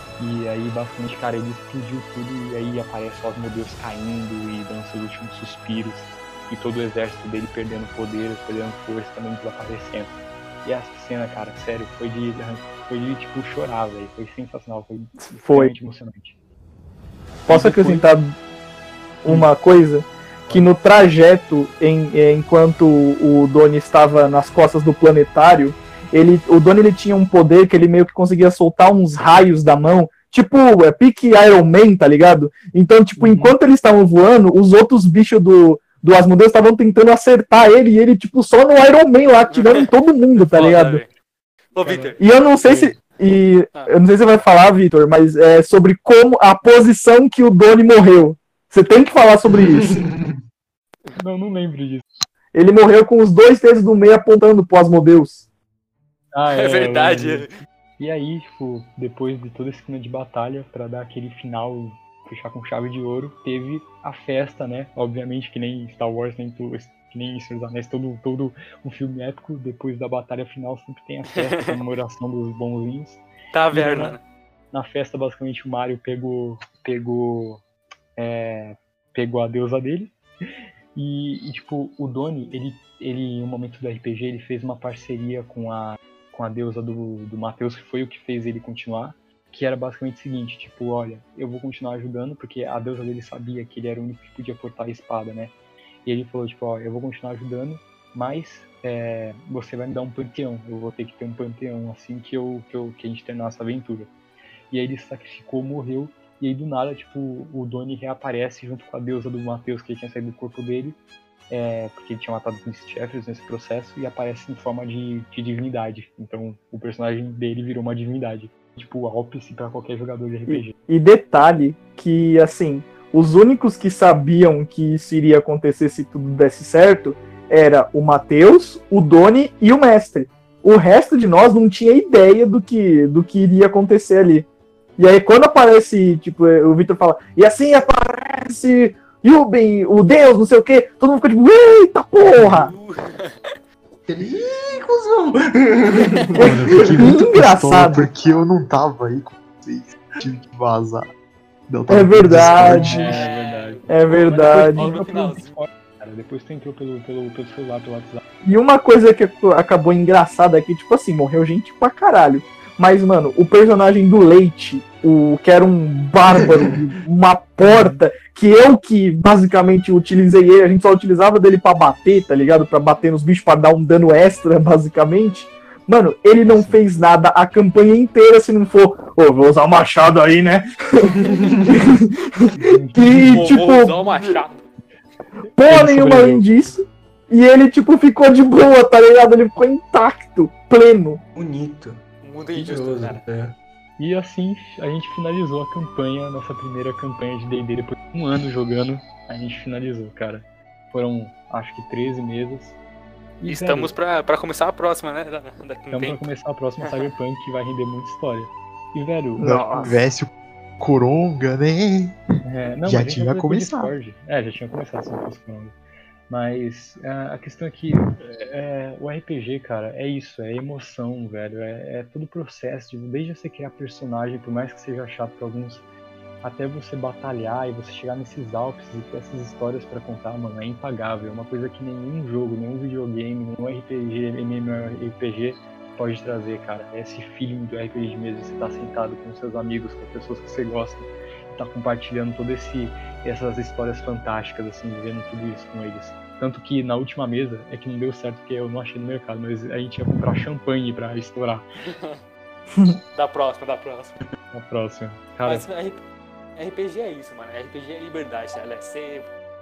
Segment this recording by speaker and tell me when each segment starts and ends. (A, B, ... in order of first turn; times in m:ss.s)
0:00.2-0:16.4 A
0:15.2-0:15.7 B
0:17.5-0:18.4 B
0:17.5-0:18.1 A
0:19.2-0:41.0 B
0:33.2-0:33.5 A
0:39.5-0:39.8 C
0:40.4-0:41.1 C
0:41.7-0:42.2 C
0:41.8-0:42.9 A
0:42.2-0:50.0 B
0:49.6-0:50.4 D
0:51.2-0:52.0 A
0:52.5-0:55.5 B
0:56.3-0:57.4 A
0:56.5-0:57.5 C
0:58.0-1:14.2 A
1:13.5-1:14.2 C
1:14.7-1:17.6 A
1:18.2-1:20.1 A
1:20.9-1:35.5 A
1:36.0-1:44.1 A
1:44.7-1:51.0 A
1:51.5-2:00.7 A
2:00.5-2:14.5 B
2:15.0-2:22.7 B
2:22.2-2:23.5 C
2:24.1-2:26.5 D
2:26.3-2:28.1 B
2:26.4-2:31.1 E
2:31.7-2:33.2 E
2:31.9-2:33.2 B
2:32.3-2:38.2 A
2:33.1-2:35.6 C
2:33.9-2:35.0 B
2:38.4-3:01.2 B
2:47.6-2:48.0 A
2:56.5-2:56.8 D
3:01.7-3:04.4 B
3:02.6-3:03.5 A
3:03.3-3:04.7 C
3:05.6-3:11.2 B
3:05.6-3:06.4 A
3:11.3-3:12.0 D
3:12.2-3:13.2 C
3:12.5-3:13.6 D
3:14.0-3:22.8 A
3:23.4-3:23.9 A
3:23.5-3:26.2 C
3:25.9-3:29.6 A
3:26.8-3:27.1 C
3:29.4-3:29.9 B
3:29.4-3:32.2 E
3:32.4-3:35.7 A
3:32.8-3:33.9 E
3:36.3-3:45.8 A
3:46.4-4:11.6 A
4:11.8-4:12.2 C
4:12.7-4:13.0 B
4:13.1-4:14.2 C
4:14.5-4:15.7 A
4:15.4-4:16.0 C
4:16.6-4:19.3 C